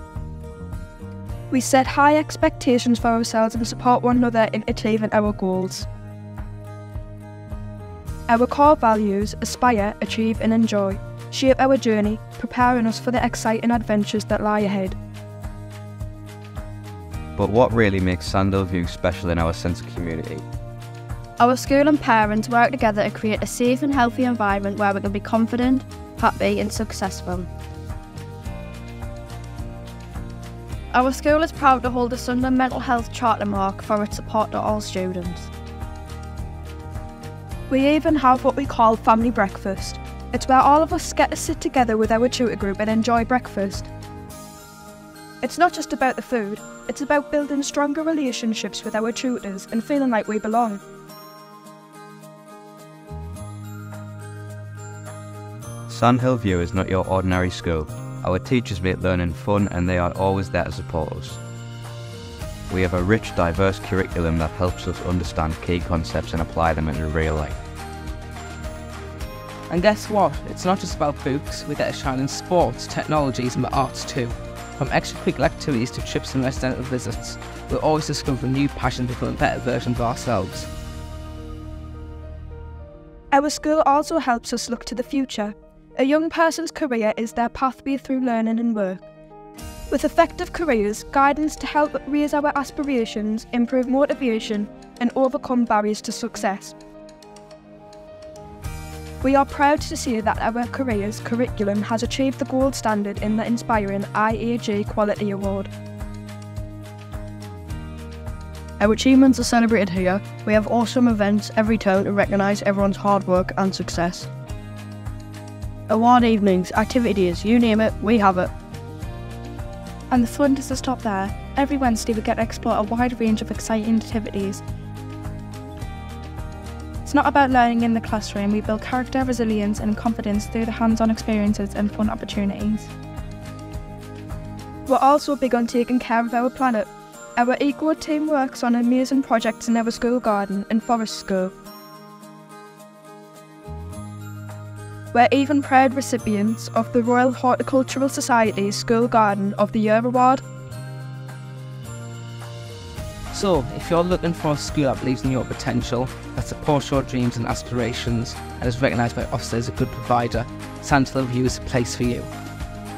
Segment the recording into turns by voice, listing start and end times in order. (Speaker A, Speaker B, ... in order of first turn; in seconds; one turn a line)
Speaker A: 1.5-5.9
Speaker A: 8.3-15.0
Speaker B: 17.4-20.4
Speaker C: 21.4-27.4
Speaker C: 30.9-35.5
Speaker A: 37.7-43.9
Speaker A: 45.4-50.8
Speaker B: 55.9-61.4
Speaker B: 62.7-67.6
Speaker D: 69.7-80.7
Speaker A: 83.3-89.1
Speaker A: 89.9-96.8
Speaker A: 99.2-105.7
Speaker E: 108.8-114.3
Speaker E: 115.9-118.5
Speaker F: 120.1-124.6
Speaker F: 127.0-132.9
Speaker A: 134.9-141.5
Speaker A: 145.1-150.4
Speaker D: 153.3-162.3